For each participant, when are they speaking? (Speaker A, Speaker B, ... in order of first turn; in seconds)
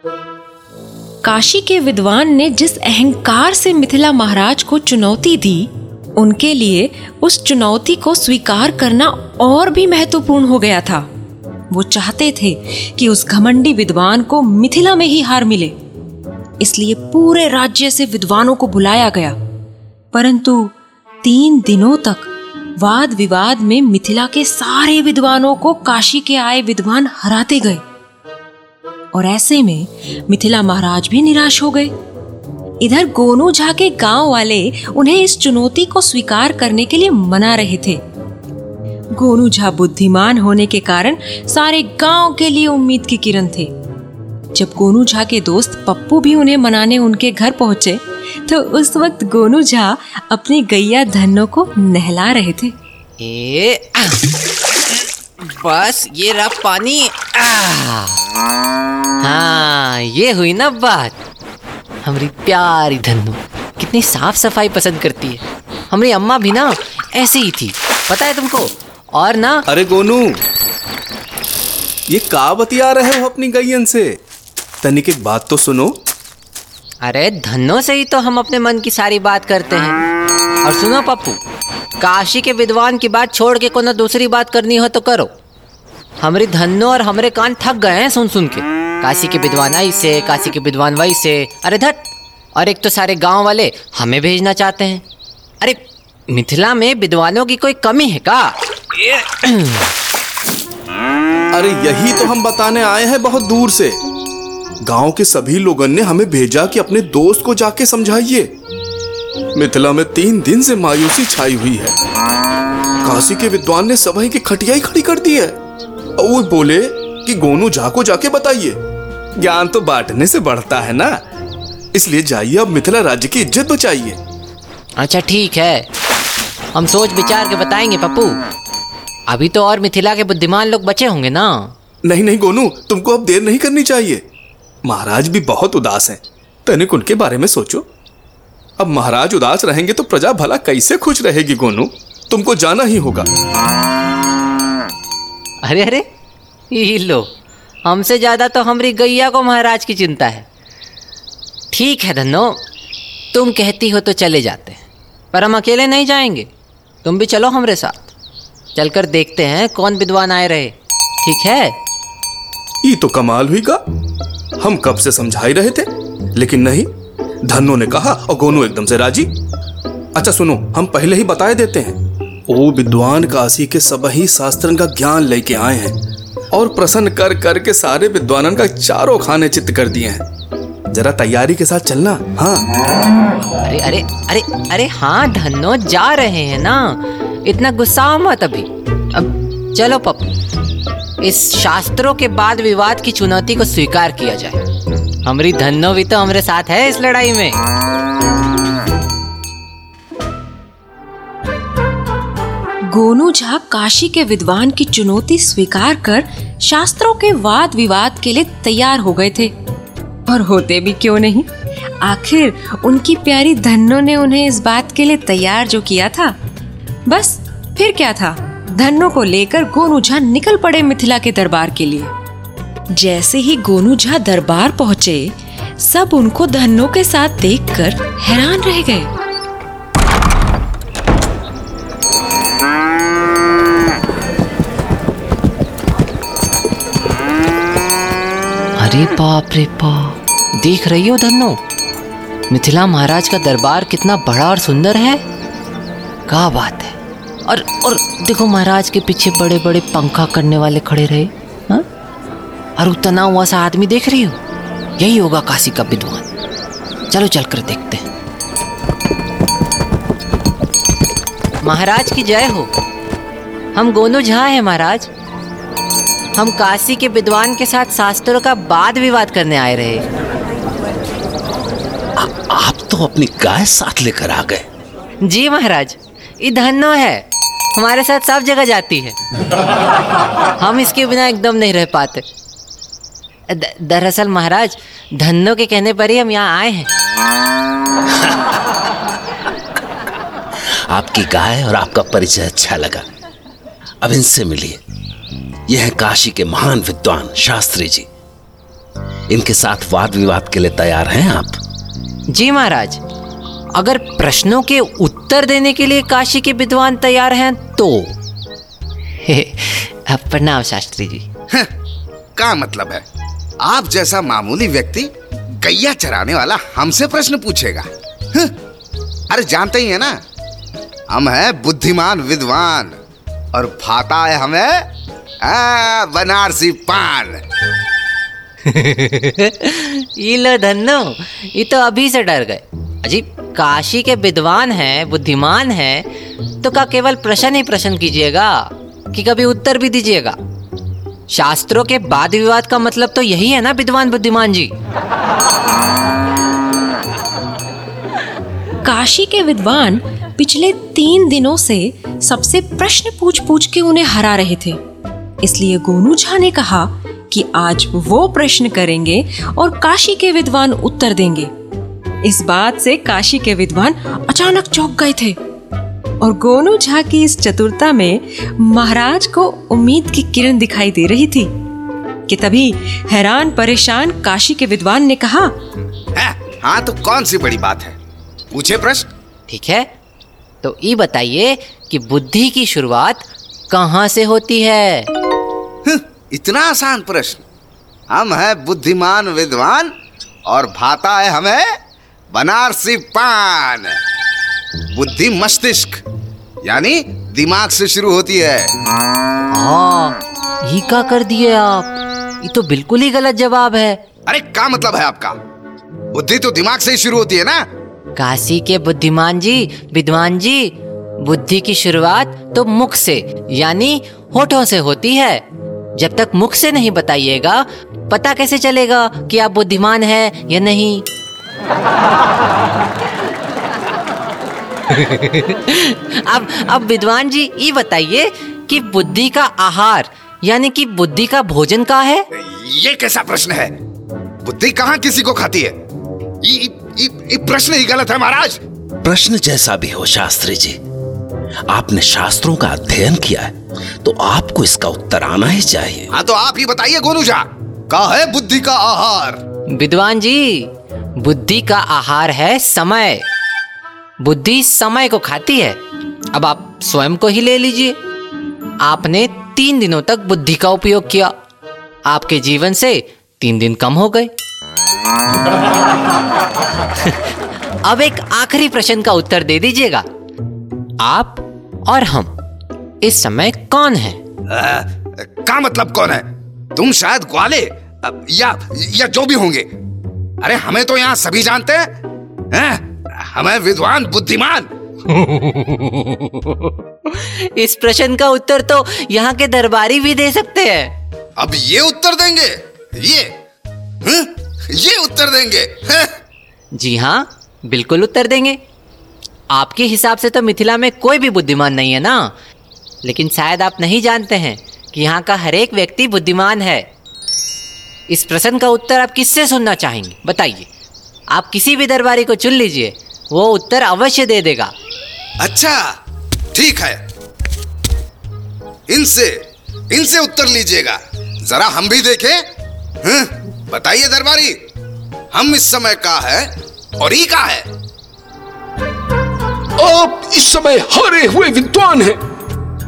Speaker A: 1.2-11.1, 11.7-15.7, 16.6-19.4, 20.1-27.8, 29.1-31.9, 32.8-38.0, 39.1-43.7, 44.5-52.7, 202.9-209.5, 210.2-211.5, 212.0-216.3, 217.1-222.1, 222.9-229.1, 348.8-354.8, 355.4-361.5, 362.2-365.4, 366.2-371.5, 372.3-375.5
Speaker B: 53.2-54.2, 55.4-58.2, 59.2-61.1, 62.0-69.6, 77.0-80.0, 80.6-81.4, 82.0-85.3, 86.2-92.0, 92.5-95.0, 95.6-99.9, 125.0-125.9, 126.7-128.4, 129.3-131.7, 145.6-146.0, 146.7-147.3, 147.8-150.4, 151.7-152.6, 153.3-154.8, 155.3-156.5, 157.0-158.1, 158.7-161.8, 183.6-190.3, 191.2-194.6, 195.2-197.6, 238.8-241.6, 242.5-245.2, 246.3-251.8, 252.8-254.4, 255.0-256.2, 257.1-258.1, 261.6-262.7, 263.7-265.1, 266.4-270.0, 275.2-277.2, 277.7-279.2, 280.6-282.2, 283.5-286.9, 302.3-303.0, 303.7-308.1, 309.2-311.2, 328.6-336.1, 336.6-340.4, 341.3-344.7, 379.5-379.9, 380.6-385.1, 399.5-404.0, 408.1-415.4, 415.9-421.1, 424.9-432.2, 449.7-453.2, 454.2-455.8, 456.3-457.9, 458.8-461.3, 462.1-464.3, 467.8-470.0, 471.0-472.3, 473.0-474.2, 485.3-486.3, 487.1-490.9, 496.7-498.6, 499.5-502.3, 503.0-506.9, 508.1-510.7, 511.3-514.7
Speaker C: 69.7-70.4, 72.1-74.2, 74.8-76.0, 101.5-104.0, 104.8-108.5, 109.5-111.9, 113.0-115.6, 116.2-118.8, 119.4-121.2, 121.9-124.2, 132.0-134.2, 134.8-137.8, 138.8-143.3, 162.8-163.8, 164.6-166.9, 167.4-169.3, 170.2-176.0, 176.5-180.2, 180.9-182.7
Speaker D: 272.2-274.6, 290.9-293.1, 294.0-294.8, 295.7-298.1, 299.3-301.6, 439.0-440.8, 441.7-446.1
Speaker E: 312.4-313.0, 313.6-318.5, 319.3-320.2, 321.1-322.9, 323.5-324.9, 325.4-327.4, 376.1-378.0, 378.5-379.1, 385.8-387.4, 388.1-389.9, 390.5-391.7, 392.3-393.9, 394.9-396.0, 396.6-398.7, 404.3-405.4, 406.1-407.6, 432.3-433.7, 434.4-435.8, 436.4-438.6, 446.1-449.4, 474.5-479.7, 480.4-481.9, 482.5-484.7, 491.4-493.3, 494.0-496.1, 515.4-515.8, 516.5-517.0, 518.9-519.4, 519.9-522.4, 523.0-524.6, 525.3-527.7
Speaker F: 529.8-532.2